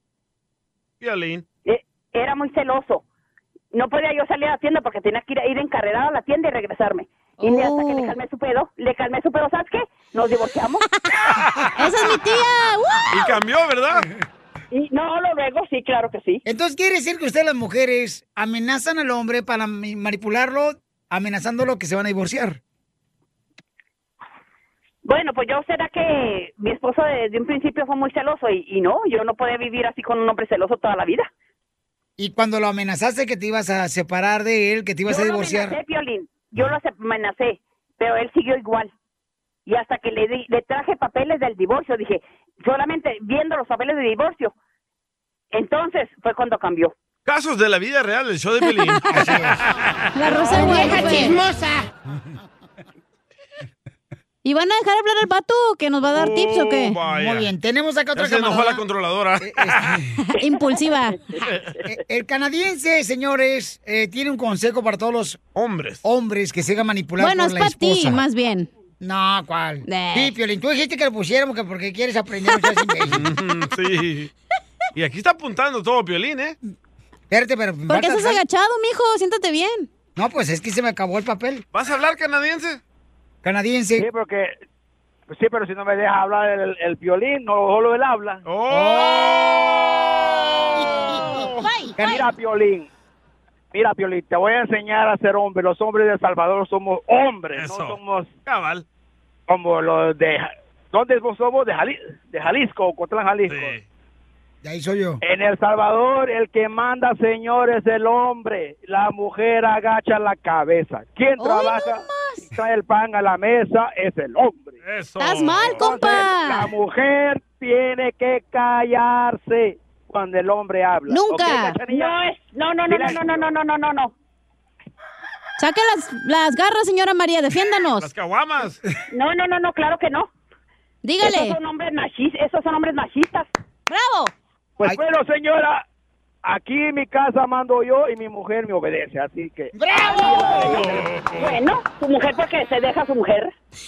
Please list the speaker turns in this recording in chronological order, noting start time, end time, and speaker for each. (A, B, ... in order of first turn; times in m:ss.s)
0:01.0-0:01.4 A
0:01.6-0:03.0 B
0:03.7-0:10.8 B
0:07.4-0:08.1 C
0:11.8-0:13.1 C
0:13.1-0:14.1 A
0:14.7-0:16.4 B
0:16.5-0:22.6 D
0:25.0-0:31.3 B
0:32.2-0:35.8 D
0:35.1-0:38.9 B
0:39.7-0:44.5 B
0:45.5-0:46.9 B
0:47.3-0:49.9 A
0:48.7-0:49.0 C
0:49.1-0:49.6 D
0:50.2-0:51.4 C
0:50.6-0:51.4 D
0:54.4-0:57.0 C
0:56.1-0:57.5 A
0:57.1-0:58.8 D
0:58.2-1:00.0 A
0:59.4-1:00.2 D
1:00.2-1:01.2 C
1:01.8-1:05.4 D
1:05.6-1:06.0 A
1:06.0-1:08.2 D
1:07.2-1:08.7 C
1:09.0-1:13.3 D
1:09.9-1:10.3 C
1:13.1-1:14.3 A
1:15.0-1:16.6 A
1:17.3-1:18.4 D
1:17.9-1:19.9 C
1:20.2-1:21.6 D
1:21.7-1:22.8 A
1:23.4-1:24.0 D
1:24.0-1:24.6 E
1:25.3-1:28.4 E
1:28.5-1:31.6 A
1:28.7-1:29.2 D
1:29.0-1:29.4 C
1:31.6-1:32.2 C
1:32.0-1:32.2 D
1:32.0-1:32.9 E
1:33.7-1:38.3 E
1:37.5-1:38.8 A
1:39.5-1:43.8 E
1:43.5-1:43.8 A
1:44.6-1:45.2 D
1:45.2-1:54.8 E
1:51.4-1:52.4 C
1:54.8-1:55.9 A
1:55.2-1:56.7 C
1:55.8-2:02.2 E
2:01.1-2:01.8 C
2:01.9-2:04.1 B
2:02.9-2:03.5 E
2:05.6-2:08.1 C
2:08.0-2:08.8 A
2:09.1-2:10.3 B
2:11.0-2:11.6 C
2:11.2-2:13.5 B
2:13.9-2:14.3 C
2:14.8-2:15.8 E
2:16.4-2:21.4 E
2:19.7-2:20.7 D
2:20.1-2:20.6 B
2:20.8-2:21.5 A
2:21.4-2:23.5 B